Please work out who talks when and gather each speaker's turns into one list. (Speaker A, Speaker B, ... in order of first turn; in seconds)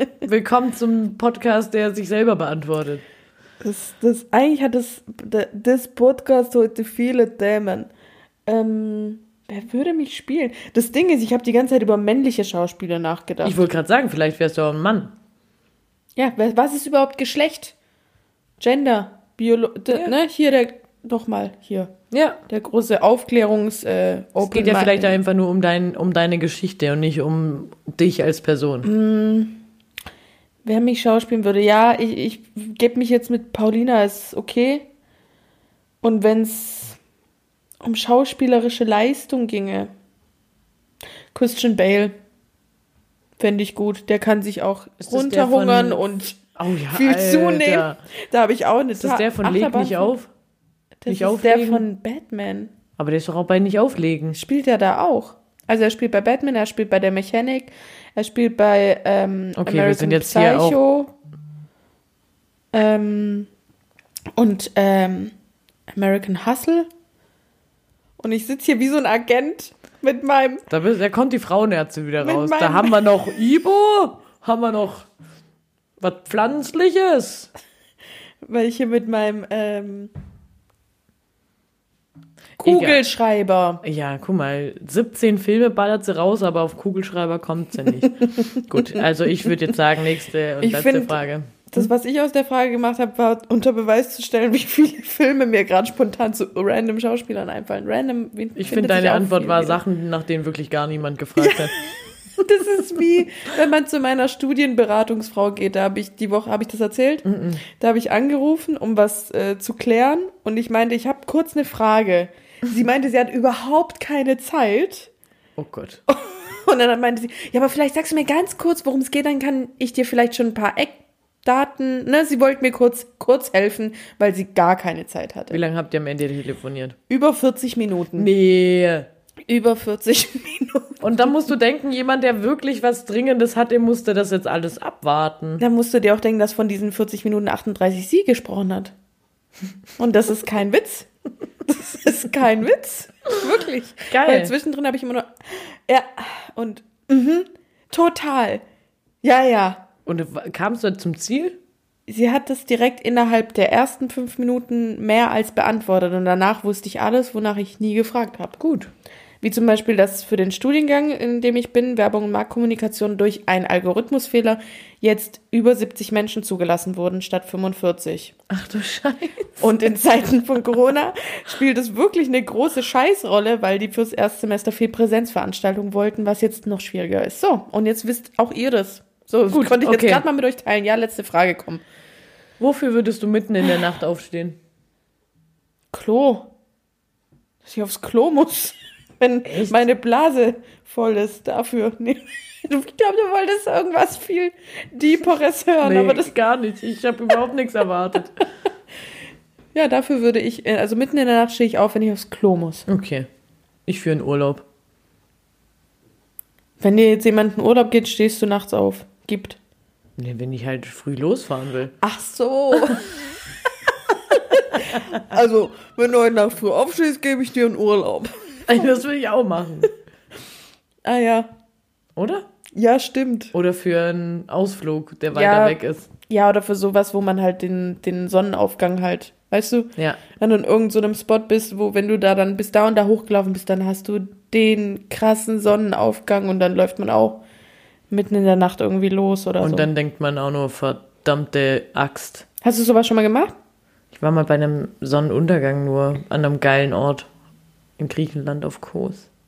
Speaker A: 0.2-3.0, 13.4-15.1, 22.1-22.4, 24.4-28.9, 45.0-46.0, 46.5-48.0, 49.0-50.3, 51.1-51.8, 53.0-54.4, 59.5-60.8, 70.7-75.1, 76.0-77.5, 82.6-83.0, 83.8-91.9, 98.5-101.7, 107.2-107.6, 115.6-116.0, 125.5-127.0, 128.2-129.1, 131.0-135.6, 144.1-144.5, 150.1-151.6, 158.6-158.9, 168.5-169.6, 179.5-180.2, 182.6-184.6, 189.4-189.8, 195.8-198.4, 202.9-203.3, 203.8-204.6, 210.2-211.9, 218.7-219.9, 222.2-222.5, 223.5-226.1, 239.6-242.4, 244.1-247.3, 248.0-249.3
Speaker B: 3.6-7.9, 8.5-13.6, 16.2-17.7, 18.6-21.9, 22.5-25.2, 28.8-29.6, 30.6-34.9, 36.0-37.0, 37.8-39.9, 41.3-42.1, 43.4-50.1, 51.0-52.7, 54.3-61.1, 62.7-63.5, 64.3-65.3, 65.9-66.9, 68.2-70.6, 72.2-73.0, 78.4-80.1, 82.6-83.8, 88.3-89.0, 90.6-99.8, 101.4-101.8, 102.4-115.1, 116.1-125.6, 127.1-128.3, 129.5-131.0, 135.6-138.9, 140.0-141.1, 141.6-145.3, 145.9-148.6, 149.2-149.8, 152.1-158.6, 159.4-168.3, 169.6-181.8, 185.9-186.5, 187.6-196.3, 199.7-202.9, 206.8-209.6, 212.0-213.1, 214.3-218.6, 221.0-221.5, 222.7-223.5, 225.3-237.4, 238.1-239.9, 242.6-243.5